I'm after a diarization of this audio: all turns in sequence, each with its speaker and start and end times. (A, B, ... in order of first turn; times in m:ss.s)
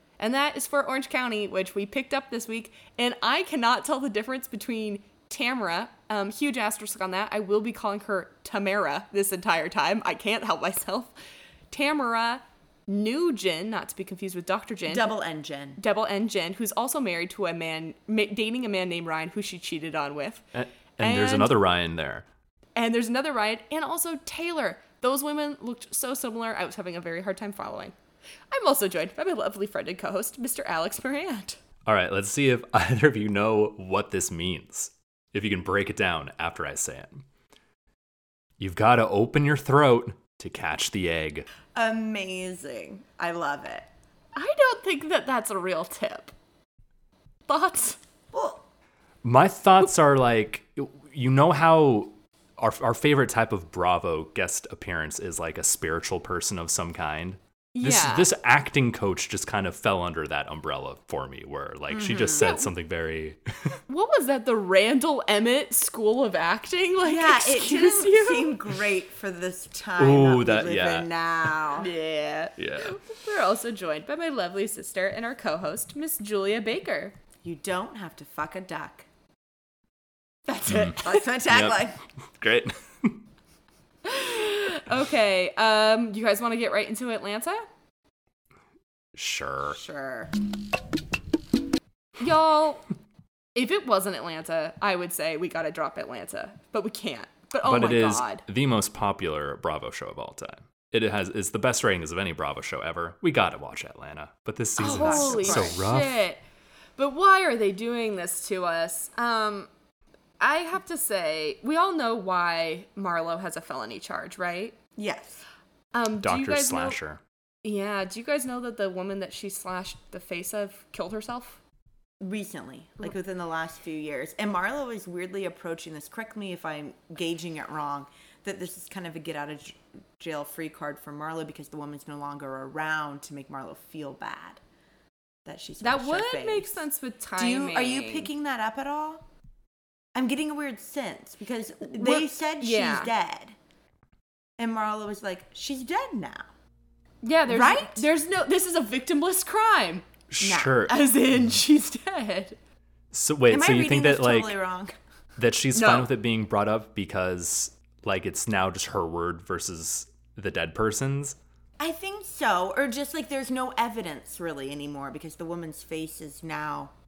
0:00.2-0:11.1 A
0:11.7-0:15.1 A
0:14.9-0:15.8 B
0:15.8-0:20.4 A
0:20.5-0:22.2 C
0:21.0-0:21.6 A
0:22.8-0:27.9 A
0:28.5-0:31.6 A
0:31.8-0:37.2 C
0:38.6-0:41.5 C
0:41.7-0:43.9 B
0:44.4-0:46.3 A
0:47.5-0:48.0 A
0:48.3-0:48.6 B
0:49.2-1:03.8 C
0:57.7-0:58.3 A
1:01.9-1:02.6 B
1:02.4-1:02.7 A
1:03.9-1:08.6 A
1:07.0-1:11.9 B
1:10.0-1:11.1 C
1:11.7-1:17.1 A
1:12.6-1:13.0 C
1:17.4-1:19.1 B
1:20.5-1:21.2 A
1:20.6-1:21.0 C
1:21.0-1:22.0 B
1:21.5-1:21.8 C
1:22.4-1:23.2 C
1:24.0-1:27.6 A
1:29.1-1:29.8 C
1:29.7-1:30.3 B
1:32.2-1:32.8 A
1:33.5-1:38.4 A
1:37.6-1:46.2 C
1:44.8-1:46.4 A
1:44.8-1:45.8 B
1:47.0-1:49.7 A
1:50.4-1:54.8 A
1:55.0-1:55.4 B
1:55.9-1:57.0 A
1:56.2-1:57.2 C
1:57.6-2:01.6 A
2:02.2-2:14.6 B
2:15.4-2:19.2 B
2:15.8-2:18.3 A
2:20.1-2:23.6 B
2:21.8-2:23.1 A
2:24.6-2:26.5 B
2:27.2-2:30.1 A
2:27.5-2:28.1 B
2:30.3-2:31.0 C
2:30.4-2:30.9 B
2:30.9-2:32.6 A
2:33.1-2:34.5 C
2:33.5-2:35.0 B
2:35.4-2:41.4 C
2:35.7-2:36.1 A
2:41.8-2:46.9 B